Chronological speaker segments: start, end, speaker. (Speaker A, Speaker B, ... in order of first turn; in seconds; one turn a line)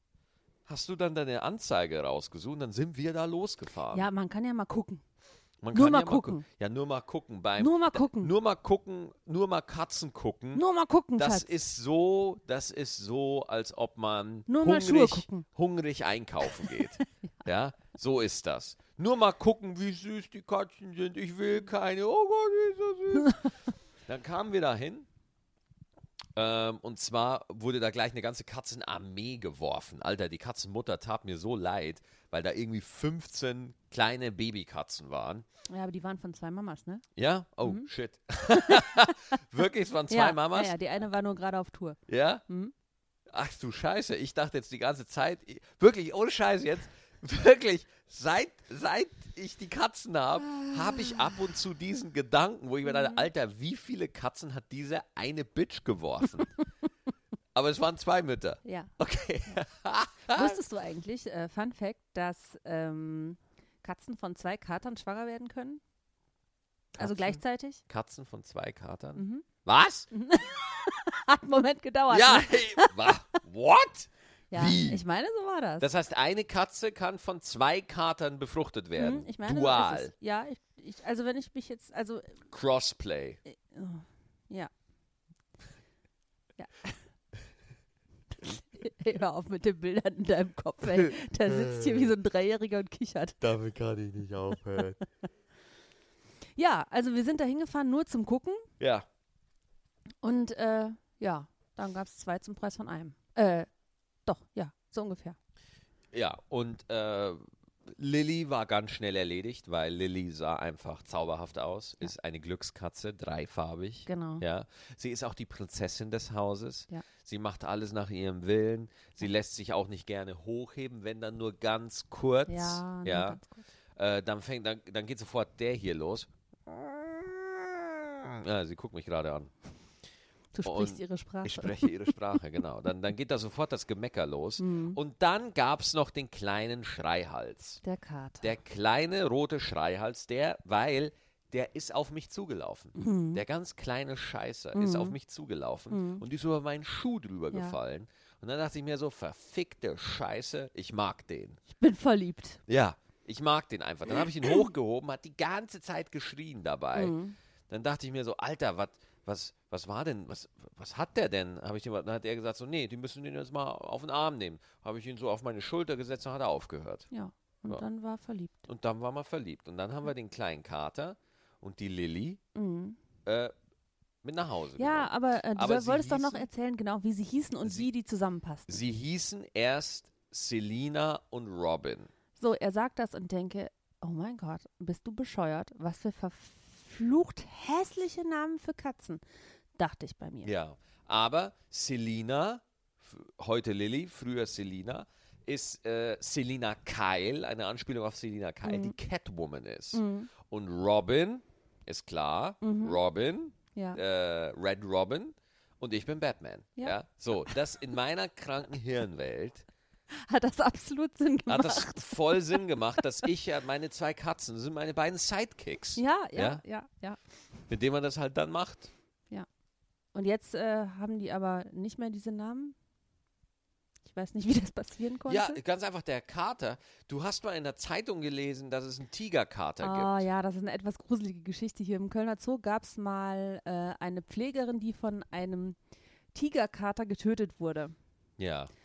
Speaker A: 0.7-4.1
Speaker B: 3.9-5.0
Speaker A: 5.6-10.6
Speaker B: 5.7-6.4
Speaker B: 7.6-8.3
Speaker B: 10.5-11.5
Speaker A: 11.2-23.5
Speaker B: 14.5-15.4
Speaker B: 16.4-17.0
Speaker A: 24.1-25.1
Speaker A: 26.4-35.5
Speaker B: 35.7-37.0
Speaker A: 37.1-40.7
Speaker B: 38.5-39.3
Speaker B: 40.1-42.7
Speaker A: 42.1-42.4
Speaker A: 43.3-56.5
Speaker B: 50.4-51.3
Speaker B: 52.8-53.3
Speaker A: 57.5-60.6
Speaker B: 58.6-58.9
Speaker B: 60.3-65.8
Speaker A: 67.0-70.1
Speaker B: 67.0-67.8
Speaker B: 69.2-69.5
Speaker B: 70.1-73.1
Speaker A: 72.1-75.0
Speaker B: 74.5-75.9
Speaker A: 75.8-80.1
Speaker B: 79.0-82.4
Speaker A: 82.5-83.4
Speaker B: 83.5-84.7
Speaker B: 86.6-87.0
Speaker B: 88.3-93.4
Speaker A: 91.0-92.0
Speaker A: 93.4-95.0
Speaker B: 96.5-98.6
Speaker A: 98.8-99.0
Speaker B: 100.2-103.7
Speaker B: 104.2-105.4
Speaker A: 106.1-123.4
Speaker B: 114.0-114.4
Speaker B: 122.5-123.7
Speaker A: 124.0-129.5
Speaker B: 130.5-132.1
Speaker A: 130.6-137.8
Speaker B: 134.6-135.0
Speaker B: 137.8-138.5
Speaker A: 138.4-151.6
Speaker B: 142.9-143.4
Speaker B: 144.7-145.2
Speaker B: 145.9-146.2
Speaker B: 147.5-147.8
Speaker B: 151.7-152.6
Speaker A: 152.7-157.2
Speaker B: 156.9-157.3
Speaker A: 157.7-167.1
Speaker B: 167.1-168.7
Speaker A: 168.7-172.4
Speaker B: 172.5-173.0
Speaker A: 173.2-173.5
Speaker A: 174.2-176.5
Speaker B: 174.8-178.8
Speaker A: 178.7-182.1
Speaker B: 182.3-189.2
Speaker B: 189.8-190.5
Speaker A: 190.4-209.7
Speaker B: 198.6-198.9
Speaker B: 199.9-200.3
Speaker B: 202.6-203.0
Speaker B: 203.7-204.0
Speaker B: 206.8-207.6
Speaker B: 210.1-212.6
Speaker A: 211.5-216.6
Speaker B: 215.9-217.2
Speaker A: 217.7-218.9
Speaker B: 220.1-222.8
Speaker B: 224.0-225.6
Speaker A: 225.3-230.2
Speaker B: 229.8-235.8
Speaker B: 236.3-237.9
Speaker A: 238.4-238.7